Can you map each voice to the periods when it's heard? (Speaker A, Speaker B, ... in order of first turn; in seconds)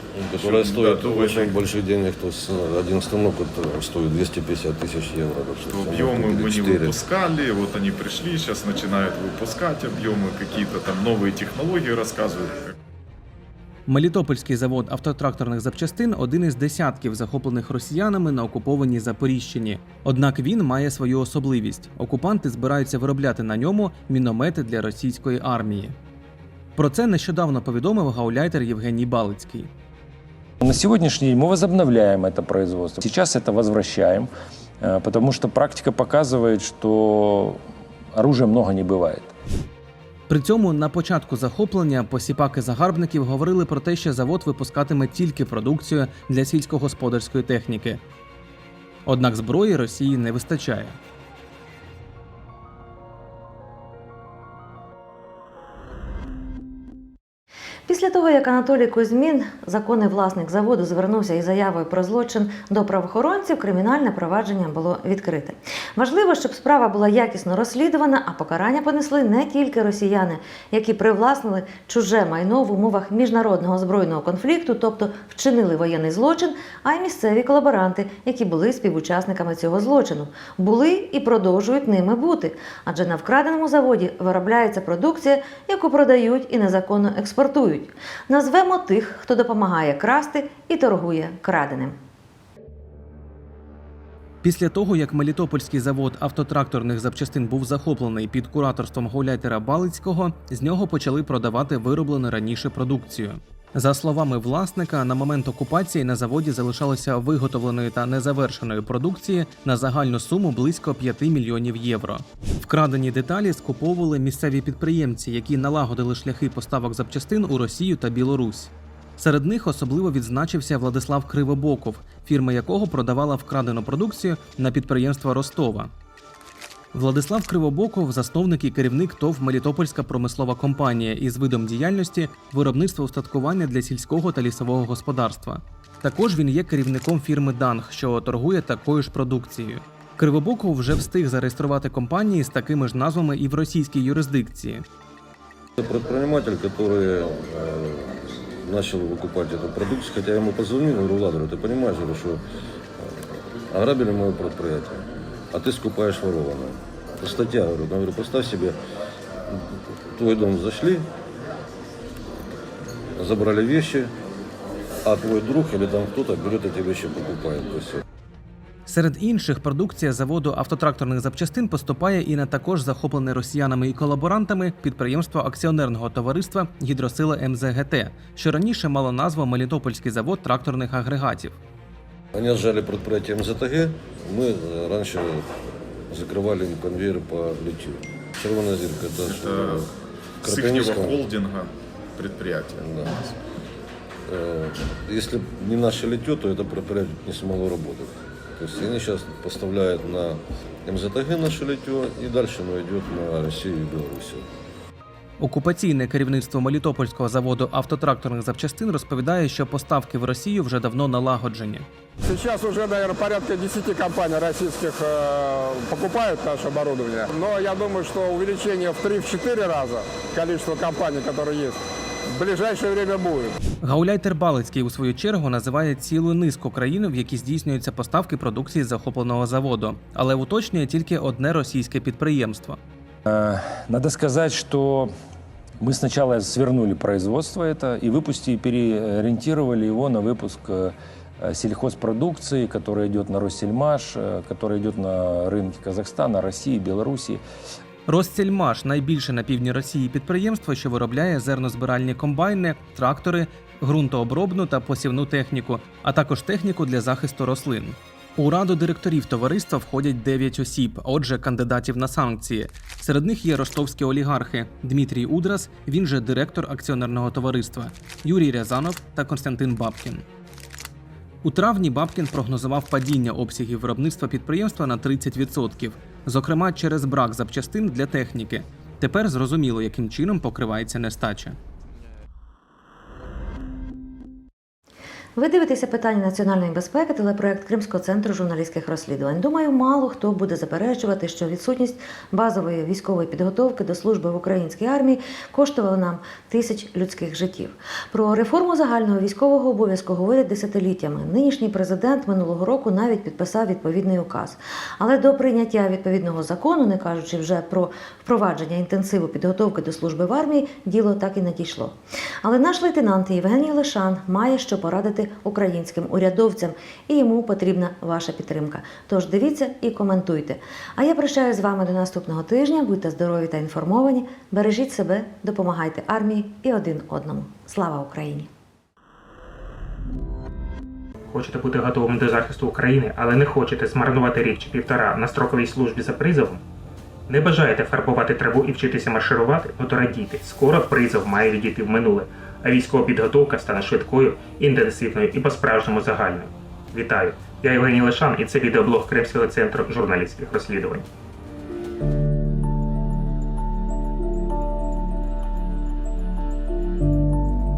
Speaker A: 0.1-7.0, 145.8-152.4, 153.7-158.8, 159.5-161.1, 163.2-164.1, 165.0-168.0, 182.3-185.5, 186.1-189.9, 190.4-191.3, 192.8-193.2, 194.3-204.4
Speaker B: 0.4-1.6, 5.7-12.7, 189.2-189.8, 190.4-193.3
Speaker C: 13.9-25.9, 26.8-29.7, 40.3-48.0, 49.0-51.0, 94.4-125.9, 126.9-144.8, 168.8-181.6, 205.4-211.9, 223.8-232.8, 248.1-270.2, 271.4-281.6
Speaker D: 30.6-34.3, 34.8-39.3, 233.2-235.1, 235.8-247.4
Speaker E: 57.9-92.0, 285.4-328.5
Speaker F: 212.2-223.6
Speaker G: 331.3-336.6, 337.3-351.1